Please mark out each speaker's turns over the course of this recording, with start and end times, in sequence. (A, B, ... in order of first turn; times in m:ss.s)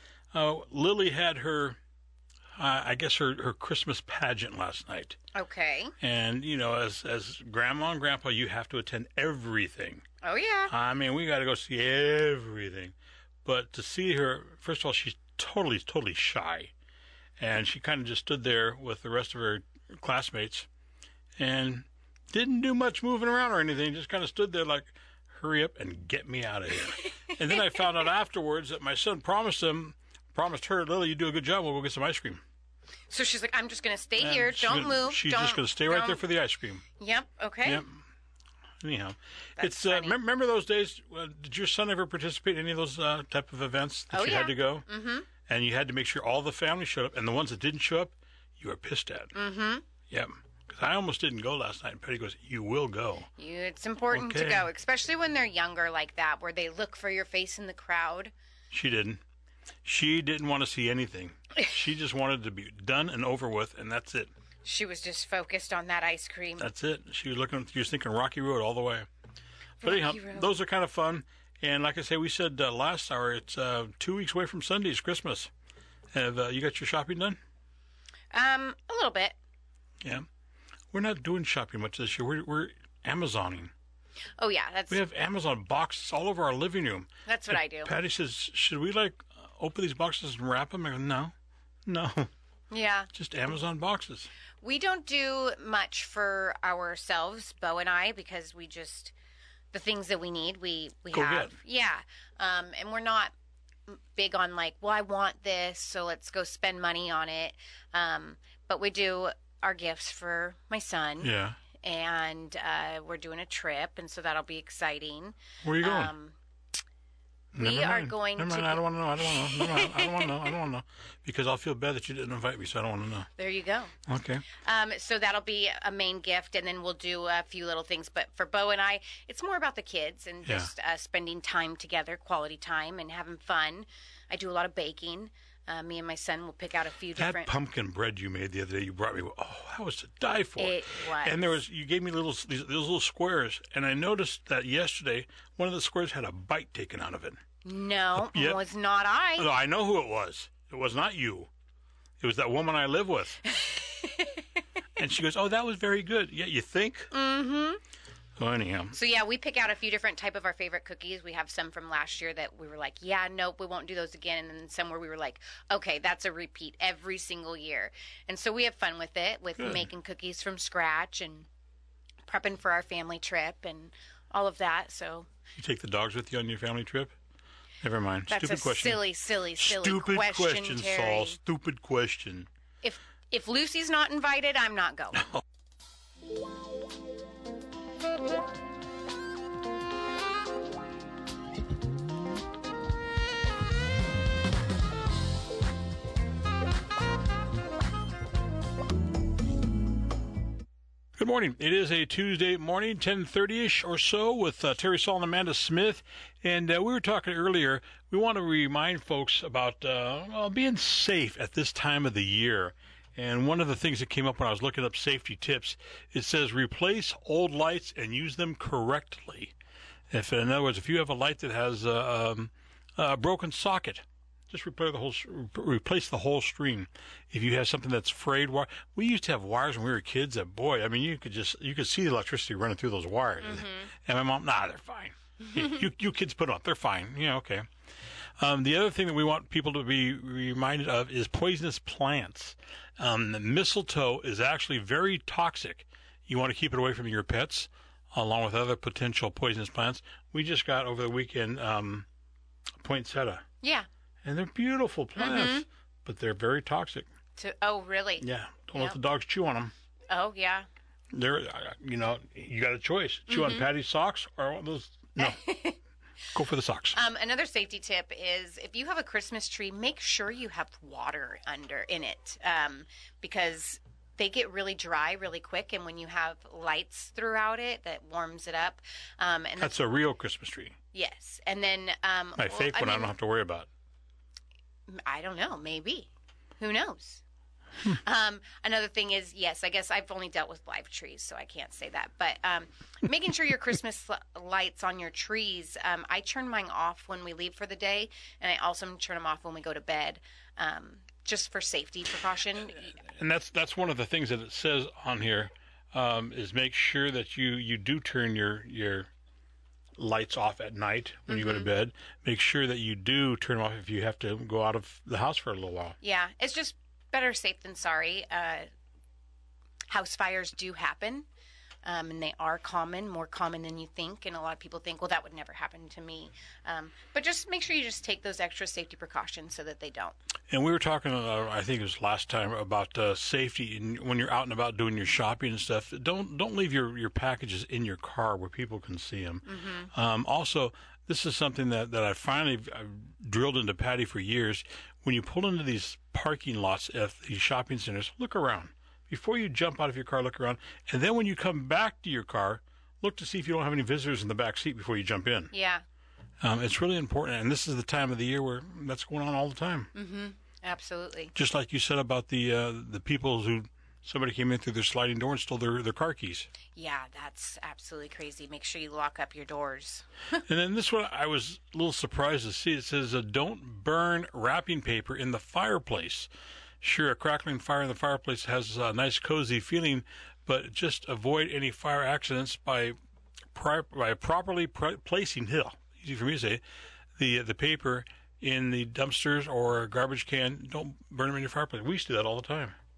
0:00.3-0:01.8 A
0:02.6-0:05.2 A
0:05.3-0:05.9 B
0:06.0-0:10.0 A
0:10.2-0:10.7 B
0:10.7-0:16.7 A
0:17.4-0:20.7 A
0:21.4-0:32.4 A
0:33.1-0:36.2 B
0:34.2-0:36.8 A
0:37.0-0:37.8 B
0:37.6-0:38.0 A
0:38.8-0:44.8 A
0:39.6-0:40.2 B
0:44.1-0:45.3 B
0:45.4-0:49.3 A
0:49.3-0:49.8 B
0:50.1-0:53.3 A
0:53.4-0:58.3 B
0:54.1-0:54.7 A
0:58.7-0:59.2 A
0:59.8-1:04.3 A
1:04.6-1:06.7 B
1:06.6-1:09.1 A
1:09.8-1:10.5 B
1:09.8-1:15.5 A
1:16.1-1:17.4 A
1:18.3-1:19.4 B
1:20.9-1:23.7 A
1:24.4-1:25.0 B
1:24.9-1:31.3 A
1:27.2-1:27.9 B
1:31.8-1:32.3 A
1:32.7-1:33.1 B
1:33.1-1:34.3 A
1:34.6-1:39.1 B
1:39.7-1:43.3 B
1:41.1-1:41.6 A
1:43.9-1:51.3 B
1:51.2-1:51.6 A
1:51.8-1:56.4 B
1:55.6-1:56.1 A
1:57.5-1:58.8 B
1:57.5-2:03.3 A
1:59.4-2:00.5 B
2:03.4-2:03.9 B
2:04.1-2:04.5 A
2:04.5-2:17.5 B
2:10.4-2:10.7 A
2:17.1-2:27.4 A
2:20.6-2:21.6 B
2:27.6-2:29.5 B
2:28.1-2:28.6 A
2:29.4-2:31.5 A
2:32.2-2:33.4 A
2:33.5-2:34.4 B
2:35.0-2:37.1 A
2:37.1-2:37.8 B
2:38.4-2:39.0 A
2:38.9-2:51.5 B
2:49.6-2:49.9 A
2:52.3-2:55.3 B
2:55.6-2:57.1 A
2:57.8-3:02.5 A
2:58.3-3:01.4 B
3:02.8-3:05.3 B
3:21.2-3:39.5 A
3:40.1-3:57.6 A
3:53.4-3:53.9 B
3:58.4-4:12.0 A
4:12.8-4:13.4 A
4:13.6-4:13.9 B
4:14.2-4:17.1 A
4:15.2-4:15.6 B
4:17.4-4:19.0 B
4:18.2-4:19.7 A
4:20.1-4:20.7 B
4:21.1-4:25.4 A
4:23.3-4:23.7 B
4:25.2-4:25.8 B
4:26.3-4:27.0 A
4:26.9-4:39.8 B
4:39.6-4:40.8 A
4:40.9-4:43.1 B
4:42.4-4:43.7 A
4:44.9-4:47.2 B
4:47.8-5:02.9 B
5:02.8-5:09.1 A
5:10.0-5:16.0 A
5:11.3-5:11.7 B
5:16.0-5:18.7 B
5:19.9-5:21.2 B
5:21.8-5:30.2 B
5:30.5-5:55.5 A
5:39.4-5:39.9 B
5:55.5-5:55.8 B
5:56.4-5:59.9 A
5:59.9-6:01.3 B
6:01.3-6:06.5 A
6:06.7-6:10.1 B
6:10.4-6:16.3 A
6:16.8-6:22.9 A
6:23.5-6:26.6 A
6:27.2-6:32.8 A